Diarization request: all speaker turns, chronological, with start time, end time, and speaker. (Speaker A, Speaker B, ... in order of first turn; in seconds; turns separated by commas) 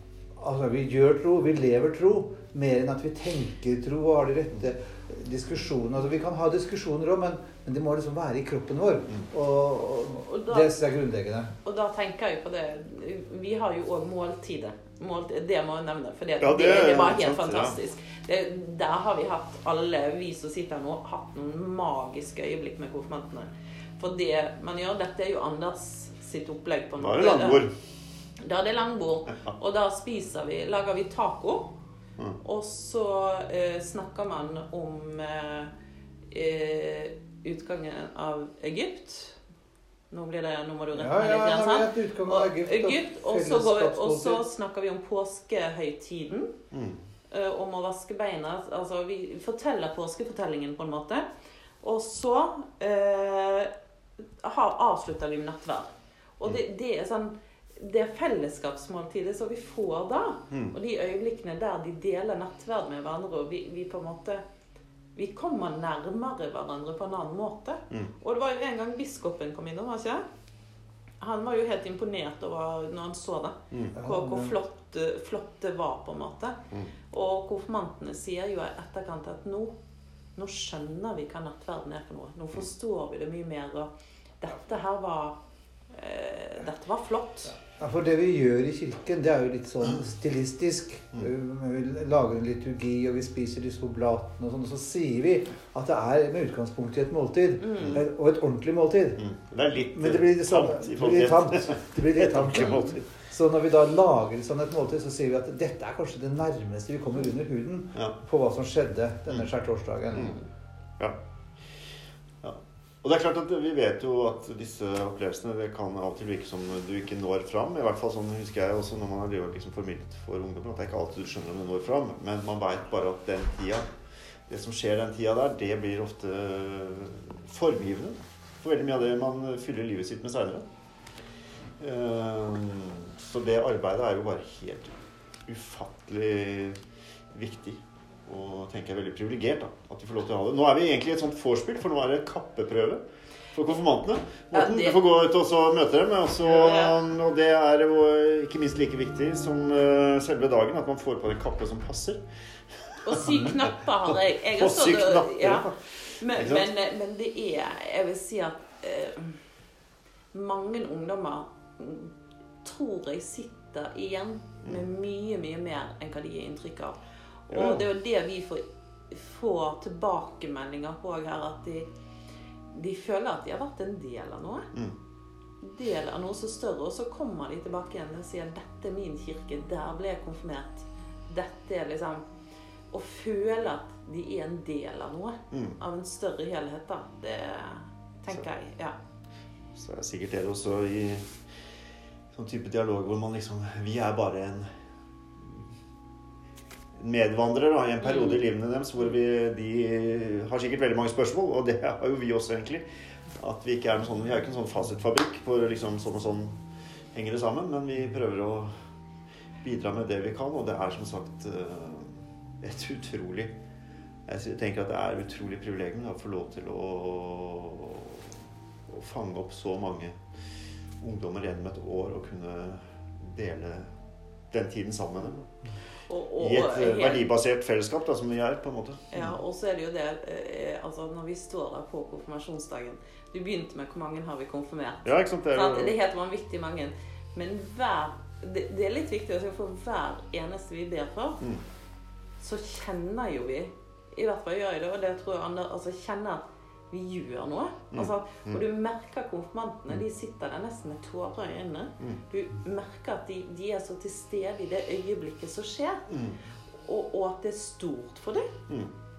Speaker A: 0.4-11.5, Speaker B: 10.2-10.7, Speaker B: 11.6-27.7, Speaker C: 16.4-17.8, Speaker C: 27.0-27.7, Speaker B: 28.4-31.8, Speaker B: 32.4-35.7, Speaker B: 36.3-39.4, Speaker B: 40.1-46.5, Speaker A: 40.9-44.4, Speaker C: 46.7-47.0, Speaker B: 47.3-51.2, Speaker B: 51.8-53.7, Speaker B: 54.4-64.4, Speaker C: 60.5-60.8, Speaker B: 65.2-70.2, Speaker B: 71.2-76.6, Speaker C: 73.7-74.0, Speaker A: 73.9-74.5, Speaker B: 77.1-79.7, Speaker B: 80.3-85.4, Speaker B: 85.9-87.5, Speaker A: 87.5-99.2, Speaker B: 97.6-98.0, Speaker C: 97.7-98.0, Speaker C: 99.2-103.0, Speaker A: 99.9-110.4, Speaker B: 102.5-102.9, Speaker C: 112.4-123.8, Speaker C: 124.5-130.6, Speaker C: 131.8-134.9, Speaker C: 135.4-136.8, Speaker C: 137.3-143.0, Speaker C: 143.5-152.2, Speaker B: 144.5-145.0, Speaker B: 146.4-146.9, Speaker B: 153.0-159.4, Speaker C: 153.1-156.7, Speaker B: 160.3-162.1, Speaker B: 162.6-171.9, Speaker C: 167.5-167.8, Speaker B: 172.7-174.7, Speaker B: 175.6-182.2, Speaker B: 182.9-188.9, Speaker C: 185.5-185.8, Speaker C: 189.7-191.3, Speaker C: 192.3-194.7, Speaker C: 196.9-202.8, Speaker B: 198.0-198.4, Speaker C: 203.4-206.6, Speaker C: 207.1-208.7, Speaker C: 209.6-213.5, Speaker C: 214.3-218.3, Speaker C: 218.9-220.2, Speaker C: 221.0-223.9, Speaker C: 224.5-225.5, Speaker B: 226.1-227.3, Speaker C: 226.4-229.4, Speaker B: 229.1-241.4, Speaker C: 235.0-235.9, Speaker B: 242.4-256.1, Speaker C: 247.9-248.6, Speaker C: 256.1-256.4, Speaker B: 256.8-258.5, Speaker C: 258.7-258.9